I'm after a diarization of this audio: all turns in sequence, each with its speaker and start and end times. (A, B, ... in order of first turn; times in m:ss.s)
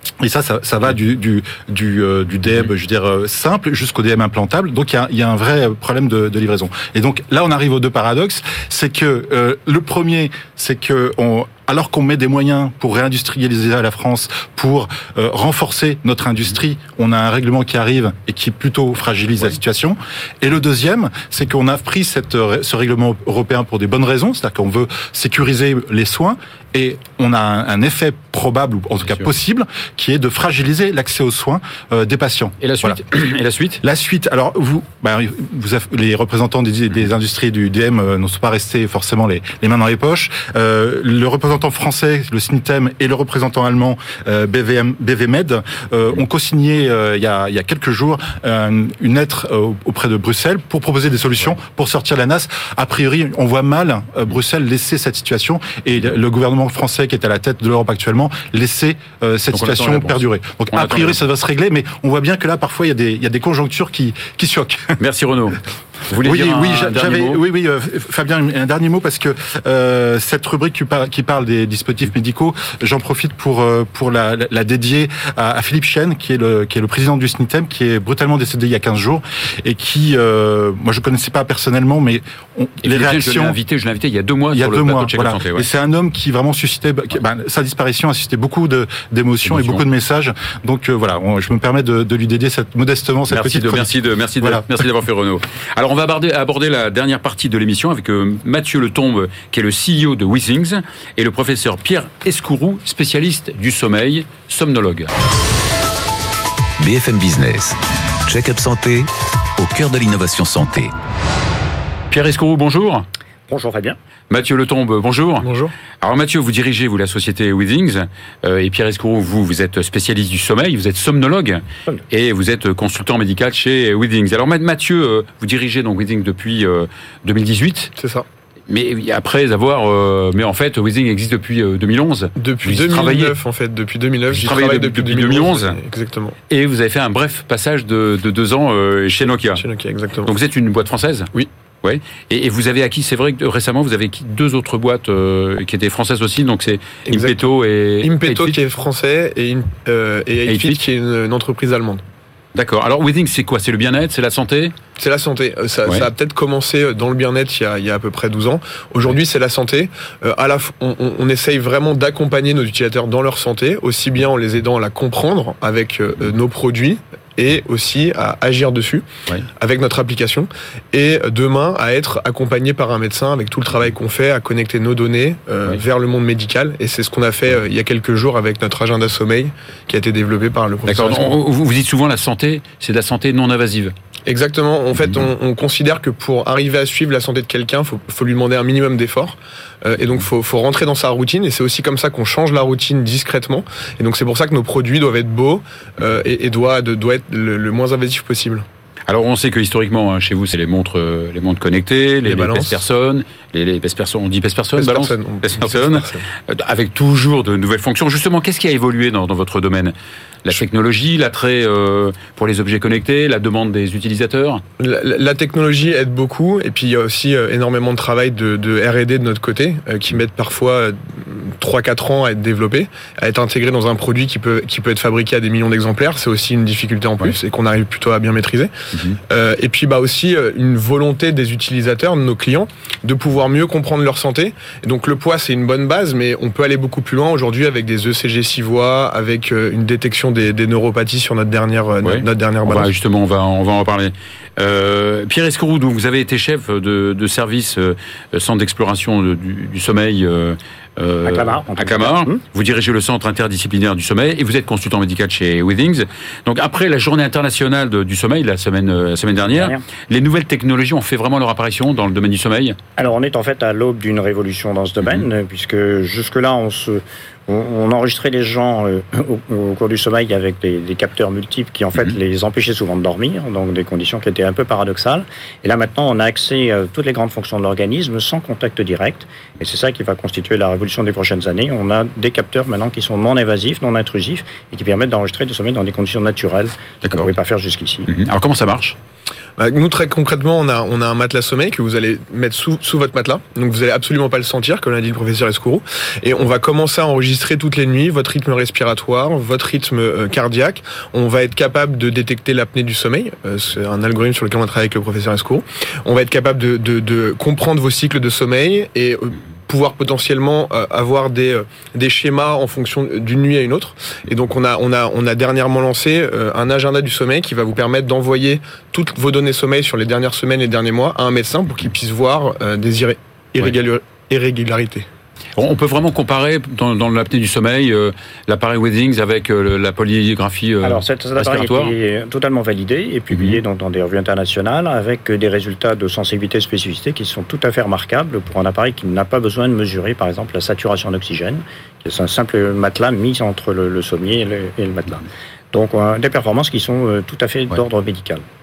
0:00.2-0:33.0 A
0:32.6-0:33.8 B
0:33.8-1:05.0 A
0:59.5-1:01.2 B
1:05.0-1:07.4 B
1:06.2-1:23.6 A
1:22.8-1:25.7 B
1:24.5-1:34.6 A
1:29.4-1:29.8 B
1:33.3-1:45.1 B
1:46.8-1:50.9 C
1:52.1-1:53.0 B
1:53.5-1:54.0 D
1:54.3-1:55.5 B
1:55.4-1:55.7 E
1:56.0-2:07.9 B
2:08.0-2:08.2 E
2:08.7-2:13.4 B
2:12.4-2:16.4 E
2:14.3-2:15.8 B
2:16.5-2:19.6 B
2:19.6-2:20.3 E
2:20.2-2:21.3 B
2:21.8-2:28.5 B
2:27.1-2:27.4 E
2:28.0-2:32.0 E
2:30.4-2:30.8 B
2:32.5-2:34.7 B
2:35.0-2:49.0 E
2:49.6-3:01.4 E
3:00.9-3:03.9 B
3:04.2-3:18.6 E
3:19.1-3:34.6 B
3:22.2-3:22.7 E
3:24.8-3:26.2 E
3:34.8-3:48.7 E
3:49.3-4:02.9 E
4:02.0-4:22.8 B
4:11.2-4:12.4 D
4:19.5-4:19.8 D
4:23.0-4:48.1 D
4:47.0-4:47.3 B
4:48.1-4:49.0 B
4:49.6-5:25.0 E
5:25.6-5:31.9 B
5:30.8-5:48.4 D
5:33.3-5:33.6 B